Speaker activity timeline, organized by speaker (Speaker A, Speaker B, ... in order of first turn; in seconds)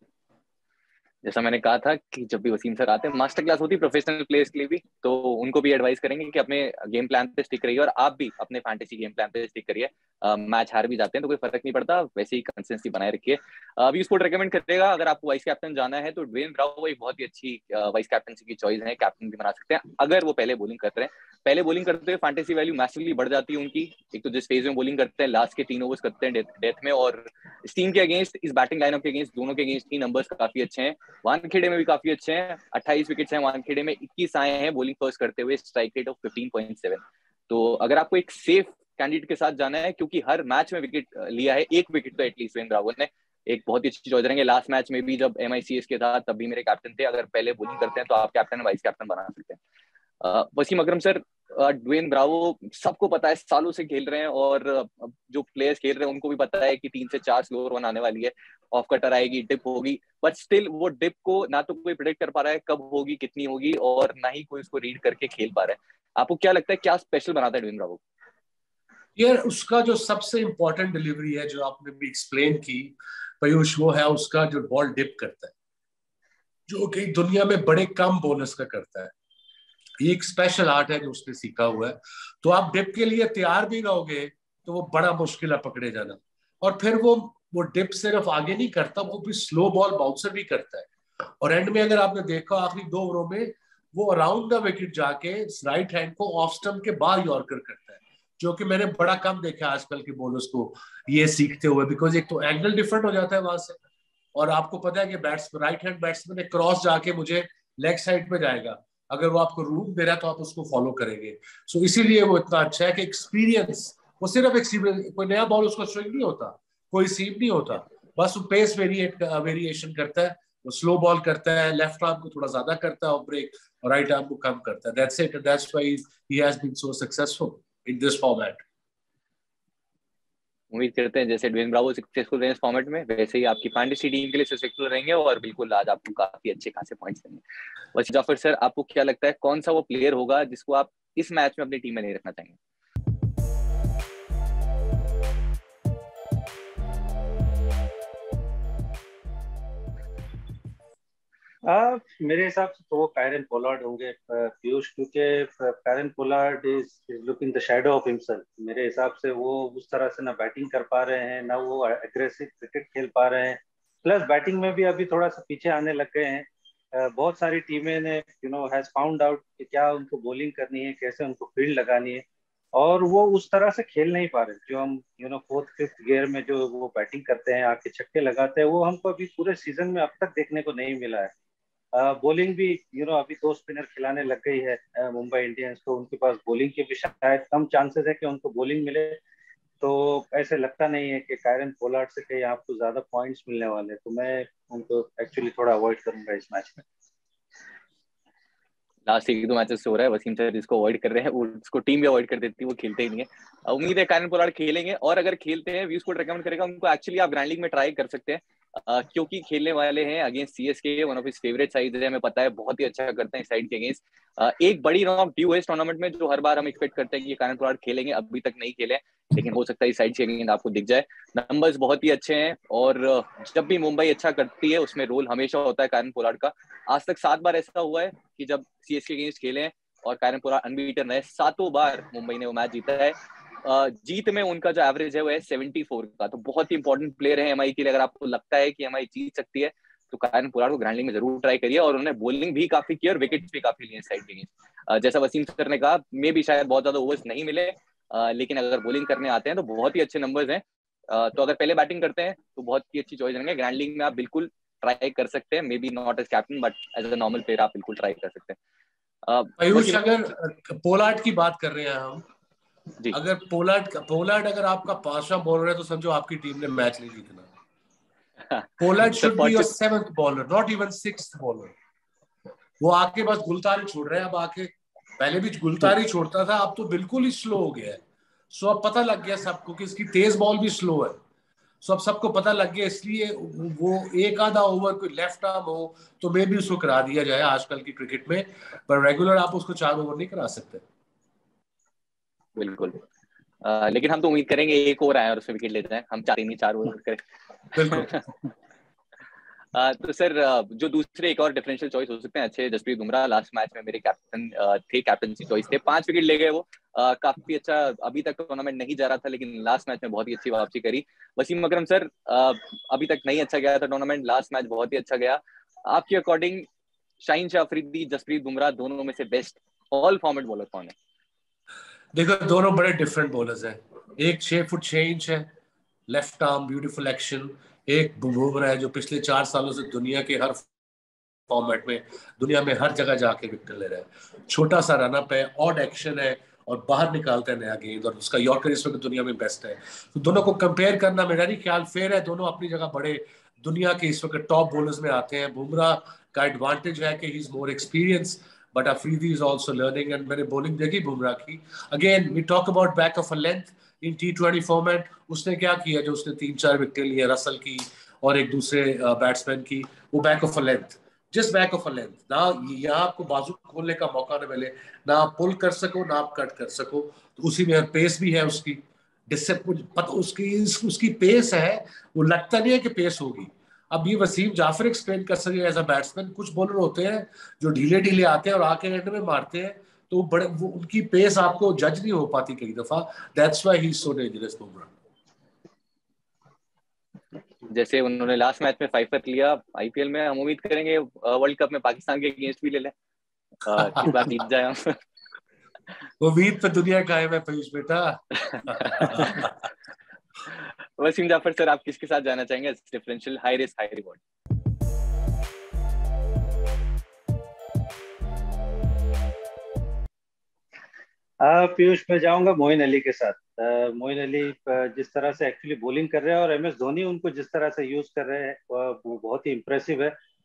Speaker A: 1.2-49.6, 50.2-68.0, 130.7-137.4, 137.9-142.6, 199.1-258.6, 259.2-260.1, 268.5-269.7, 292.6-293.0, 293.6-297.2, 297.7-298.2, 299.7-316.7, 317.2-320.9, 387.7-392.9, 393.6-395.0, 398.8-399.5, 400.5-404.2
Speaker B: 69.2-75.5, 76.7-79.1, 80.0-103.8, 104.3-128.6, 259.6-262.2, 263.1-267.5, 268.8-271.7, 272.8-278.0, 278.5-281.2, 281.8-290.8, 297.7-298.1, 322.1-325.5, 326.1-330.7, 331.5-384.9, 396.2-399.5
Speaker C: 151.6-172.2, 172.7-181.3, 181.9-189.2, 189.8-196.8, 411.4-420.1